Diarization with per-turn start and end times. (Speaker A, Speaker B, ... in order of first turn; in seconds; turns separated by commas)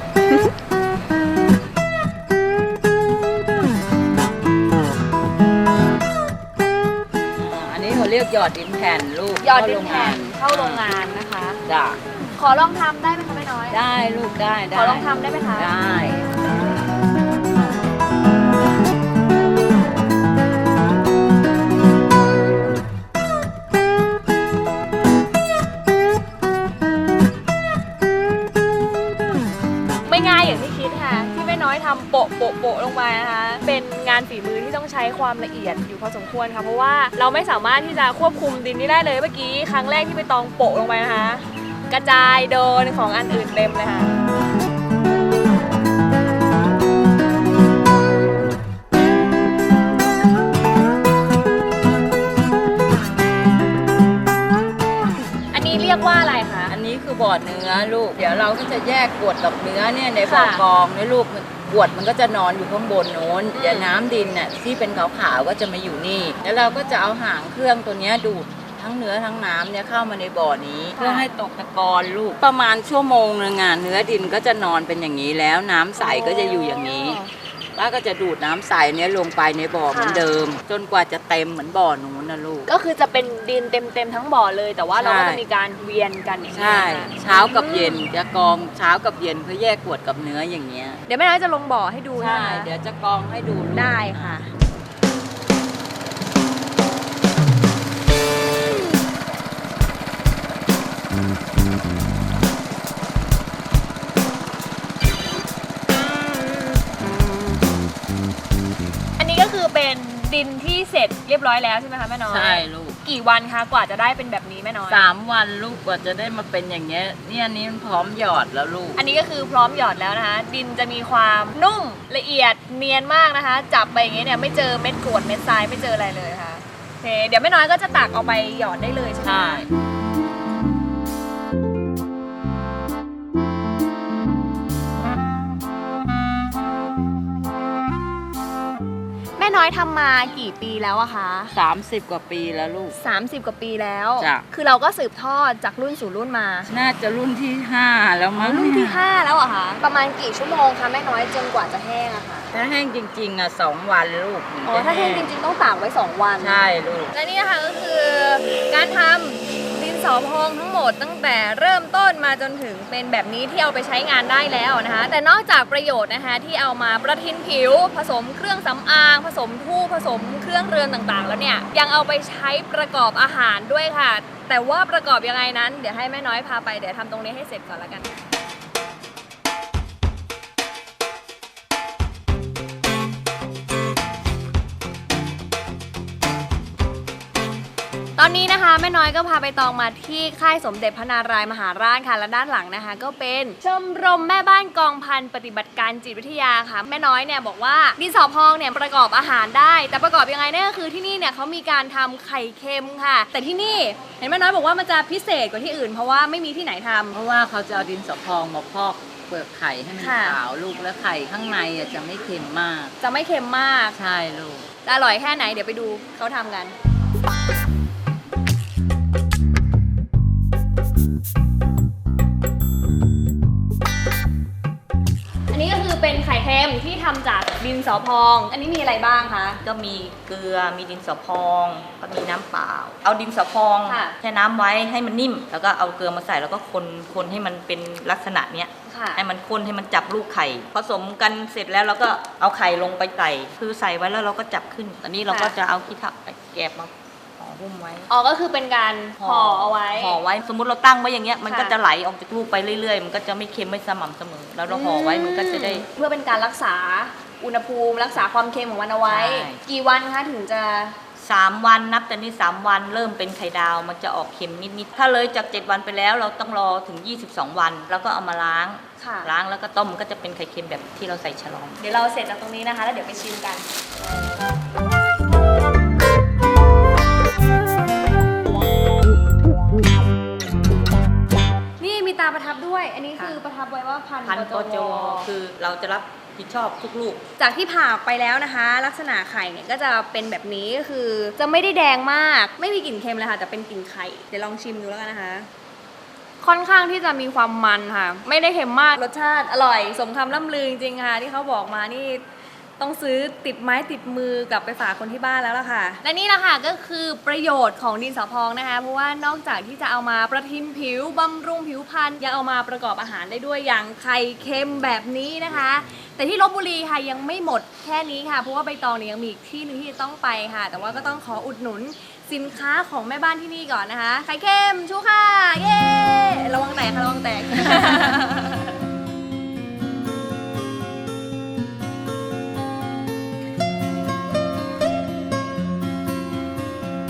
Speaker A: 7.4-10.9, Speaker B: 9.4-11.6, Speaker A: 11.7-12.0, Speaker B: 12.4-13.8, Speaker A: 13.7-16.3, Speaker B: 14.7-15.7, Speaker B: 30.1-44.1, Speaker B: 55.5-56.8, Speaker A: 56.7-77.2, Speaker B: 60.2-60.6, Speaker B: 63.5-64.0, Speaker B: 71.0-71.3, Speaker B: 76.0-77.3, Speaker A: 77.8-82.7, Speaker B: 79.9-80.2, Speaker B: 82.7-88.0, Speaker A: 85.0-85.4, Speaker A: 86.5-91.0, Speaker B: 91.1-92.7, Speaker A: 92.2-94.4, Speaker B: 93.7-94.5, Speaker B: 109.2-115.1, Speaker A: 112.3-113.0, Speaker A: 114.9-119.0, Speaker B: 119.0-129.6, Speaker A: 129.2-129.7, Speaker B: 139.4-141.5, Speaker A: 141.5-143.0, Speaker B: 143.0-146.7, Speaker A: 144.2-144.4, Speaker A: 146.7-149.0, Speaker B: 148.4-152.5, Speaker A: 152.5-155.3, Speaker B: 154.7-156.6, Speaker A: 156.4-157.1, Speaker B: 157.1-178.1, Speaker B: 188.2-207.2, Speaker A: 207.1-212.9, Speaker B: 210.0-210.4, Speaker B: 213.0-214.0, Speaker A: 213.9-214.7, Speaker B: 214.8-216.7, Speaker B: 225.5-229.6, Speaker C: 229.6-248.1, Speaker B: 233.8-234.2, Speaker B: 238.9-239.2, Speaker B: 245.3-245.6, Speaker B: 248.1-250.2, Speaker C: 249.2-255.9, Speaker B: 251.5-251.8, Speaker B: 254.7-261.0, Speaker C: 259.1-259.6, Speaker C: 261.2-271.8, Speaker B: 269.0-269.3, Speaker B: 271.8-273.7, Speaker B: 281.8-285.3, Speaker C: 284.2-287.2, Speaker B: 287.4-295.5, Speaker B: 296.4-302.2, Speaker B: 302.8-328.8